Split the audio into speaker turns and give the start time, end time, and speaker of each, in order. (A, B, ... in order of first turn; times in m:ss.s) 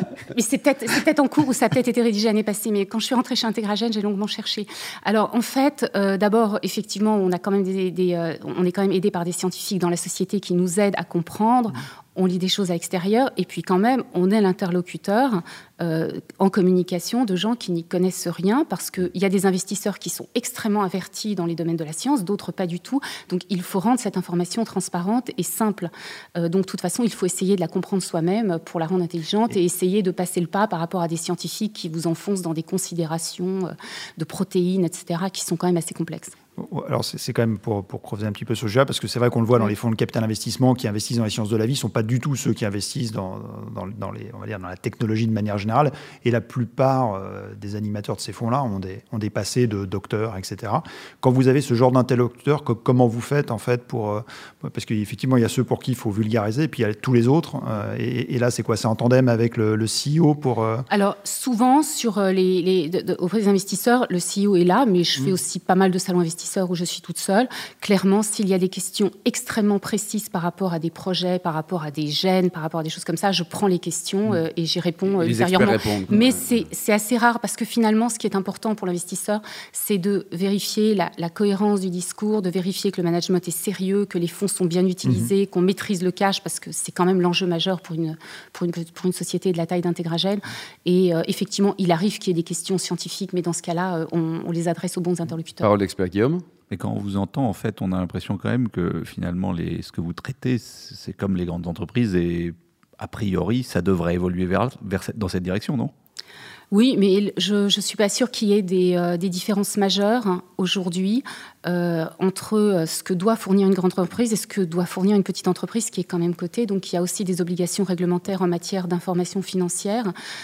0:00.3-0:36.3 A
0:36.6-1:00.9 B
1:00.9-1:35.7 A
1:15.1-1:16.4 C
1:25.0-1:25.3 B
1:35.6-1:36.4 C
1:36.7-1:45.9 D
1:46.7-2:00.1 A